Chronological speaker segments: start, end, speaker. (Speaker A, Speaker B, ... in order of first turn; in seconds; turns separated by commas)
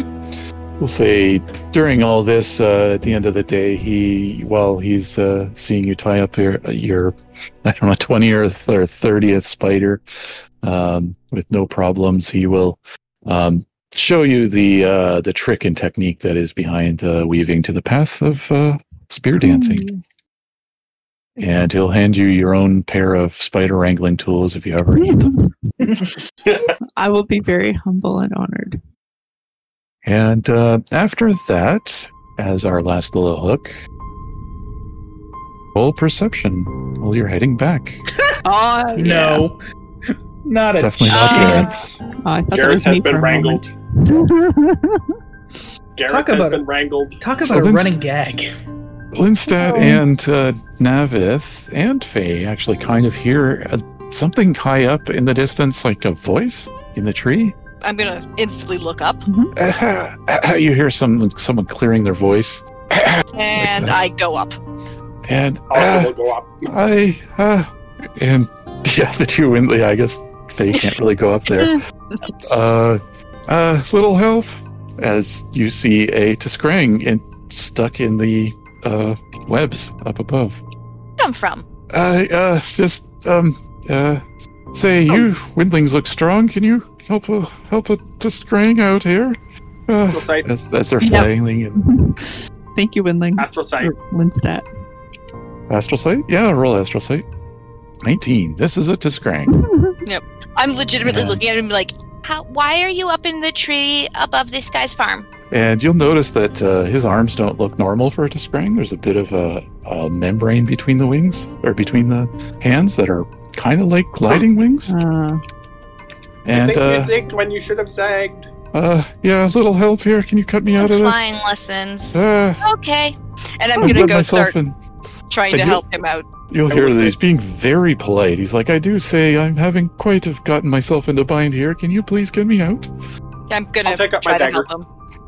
Speaker A: 0.8-10.0, Speaker A: 10.6-19.9, Speaker B: 19.4-20.0, Speaker A: 21.4-25.3, Speaker B: 25.0-25.5, Speaker C: 26.5-26.7, Speaker B: 27.0-28.8, Speaker A: 30.0-33.7, Speaker A: 35.7-38.0, Speaker B: 38.4-39.5, Speaker D: 39.0-42.0, Speaker A: 40.8-41.7, Speaker E: 41.1-41.8, Speaker B: 42.2-45.1, Speaker C: 42.5-43.7, Speaker C: 46.0-47.2, Speaker D: 46.1-46.6, Speaker D: 47.2-48.5, Speaker A: 47.4-48.0, Speaker A: 49.1-57.6, Speaker B: 49.5-50.0, Speaker E: 57.8-59.3, Speaker B: 59.3-59.5, Speaker A: 59.5-64.0, Speaker E: 63.4-64.6, Speaker A: 65.3-66.1, Speaker C: 65.7-66.7, Speaker A: 66.7-71.8, Speaker A: 72.4-80.6, Speaker E: 81.2-81.7, Speaker A: 81.9-91.9, Speaker C: 90.1-90.5, Speaker B: 91.0-94.7, Speaker C: 93.4-93.9, Speaker A: 95.7-97.3, Speaker A: 98.0-99.6, Speaker B: 99.5-100.0, Speaker E: 100.0-105.3, Speaker A: 101.0-101.4, Speaker A: 105.5-115.0, Speaker B: 114.9-115.4, Speaker A: 116.5-117.2, Speaker C: 116.5-118.5, Speaker A: 118.7-121.3, Speaker E: 120.8-124.5, Speaker A: 122.1-122.7, Speaker A: 123.8-124.8, Speaker E: 125.3-126.3, Speaker A: 125.5-125.8, Speaker A: 126.5-132.9, Speaker C: 126.7-127.2, Speaker E: 133.5-134.9, Speaker C: 133.8-134.7